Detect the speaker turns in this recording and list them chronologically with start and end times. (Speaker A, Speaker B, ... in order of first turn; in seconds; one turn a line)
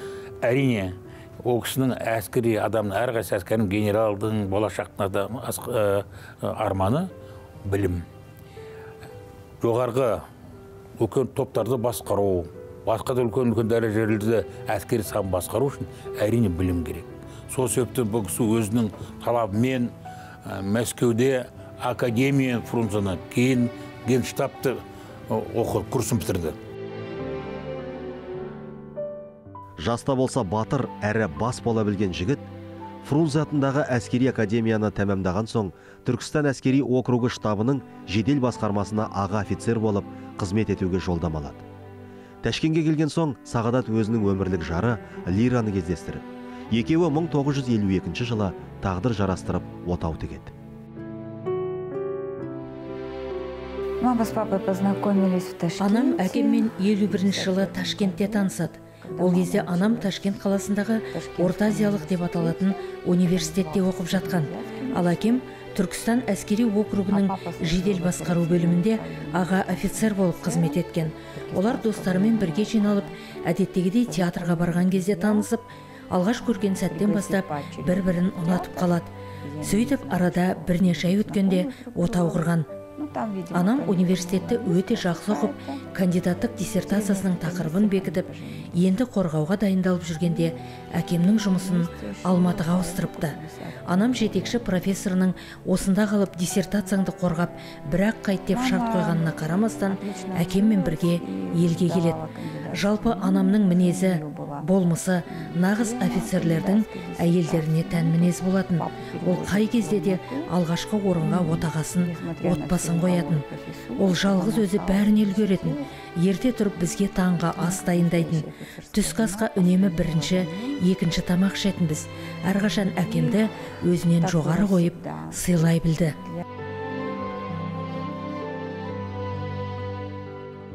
Speaker A: 0.4-7.1
Speaker A: 7.6-8.0
Speaker A: 9.6-10.2
Speaker A: 11.0-19.9
Speaker A: 20.4-26.6
Speaker B: 29.8-32.5
Speaker B: 33.0-41.6
Speaker B: 42.4-50.5
Speaker C: 54.0-65.4
Speaker D: 55.8-79.1
Speaker C: 67.1-70.8
Speaker C: 71.5-73.1
Speaker C: 74.0-75.5
Speaker C: 76.3-85.9
Speaker D: 79.6-82.7
Speaker D: 83.5-102.2
Speaker C: 86.4-88.8
Speaker C: 90.2-95.1
Speaker C: 98.5-110.5
Speaker D: 102.7-113.4
Speaker C: 111.2-115.8
Speaker D: 114.0-126.2
Speaker C: 116.8-120.8
Speaker C: 122.5-123.4
Speaker C: 124.2-126.4